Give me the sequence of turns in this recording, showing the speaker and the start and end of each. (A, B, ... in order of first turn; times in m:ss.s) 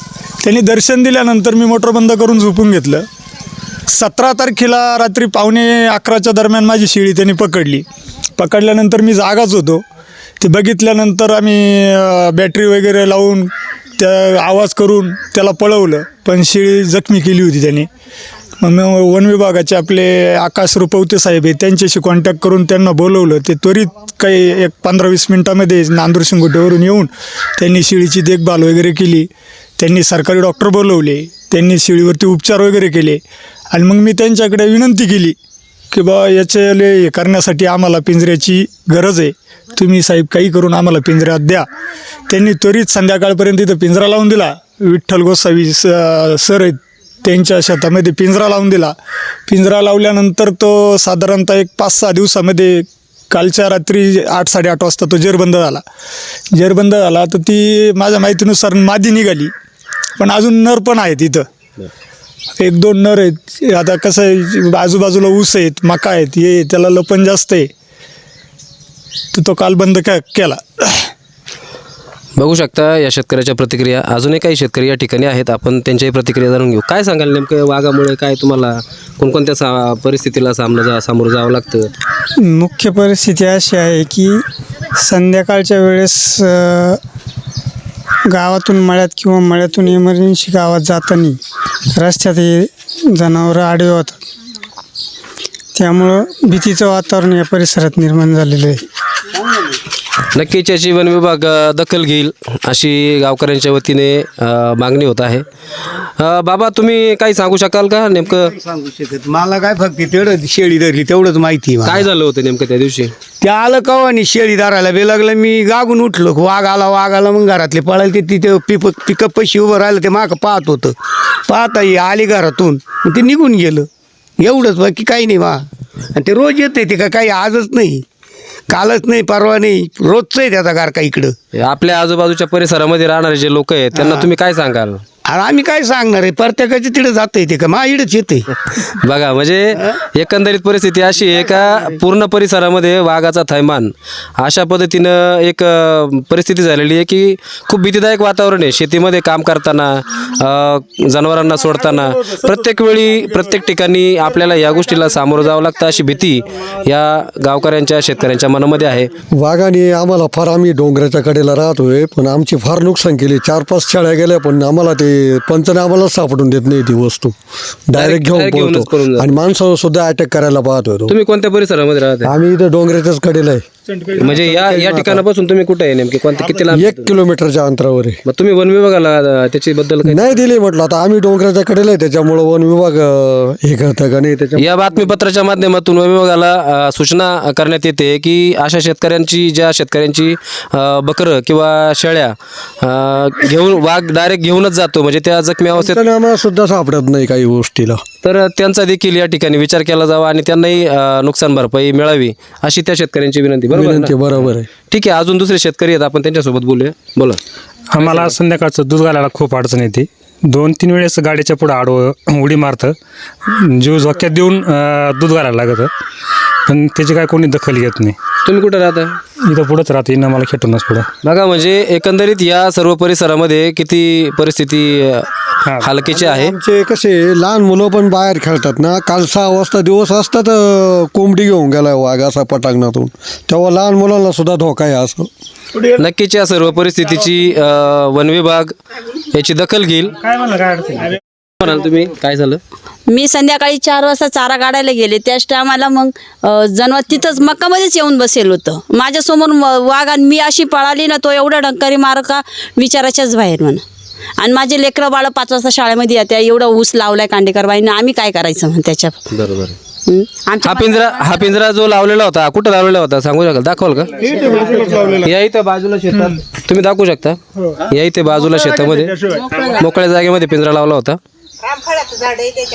0:00.4-0:03.0 A
0:03.9-0:07.8 A
0:08.4-0:09.8 A
0:10.4-0:17.9 A
0:18.6-0:35.4 A
0:35.9-0:41.6 A
0:42.3-0:48.9 A
0:49.5-0:55.8 A
0:56.5-0:59.5 A
1:00.2-1:01.4 A
1:02.6-1:07.7 A
1:09.3-1:11.1 A
1:12.4-1:21.9 B
1:22.4-1:24.4 C
1:25.0-1:27.0 C
1:28.3-1:31.4 C
1:31.9-1:34.2 C
1:35.7-1:38.8 C
1:40.3-1:45.4 B
1:46.2-1:48.5 B
1:48.5-1:52.0 D
1:51.8-1:53.1 B
1:53.4-2:01.0 D
2:01.5-2:03.9 D
2:04.4-2:05.6 D
2:06.1-2:08.0 D
2:08.7-2:11.3 D
2:11.6-2:15.0 B
2:13.9-2:14.3 D
2:15.3-2:18.4 D
2:19.0-2:39.1 B
2:39.3-2:47.3 E
2:47.9-2:51.2 E
2:48.0-2:49.3 B
2:51.1-2:52.3 B
2:52.2-2:53.6 E
2:54.2-2:55.2 E
2:54.2-2:57.1 B
2:56.7-2:58.2 E
2:58.2-3:00.4 B
3:00.0-3:05.2 E
3:04.6-3:16.0 B
3:15.7-3:18.0 E
3:18.2-3:27.4 B
3:23.7-3:24.7 E
3:27.9-3:35.9 F
3:28.0-3:28.4 B
3:36.7-3:38.2 F
3:38.4-3:39.2 B
3:39.4-3:41.1 F
3:41.2-3:45.3 B
3:45.6-3:45.9 F
3:45.8-3:46.5 B
3:46.1-3:55.3 E
3:56.0-3:58.7 B
3:59.3-4:01.0 B
4:00.4-4:00.8 F
4:01.6-4:02.6 B
4:03.1-4:13.8 G
4:14.4-4:19.1 G
4:19.3-4:19.8 B
4:20.1-4:21.5 G
4:20.6-4:31.2 B
4:24.2-4:25.3 A
4:29.0-4:29.4 A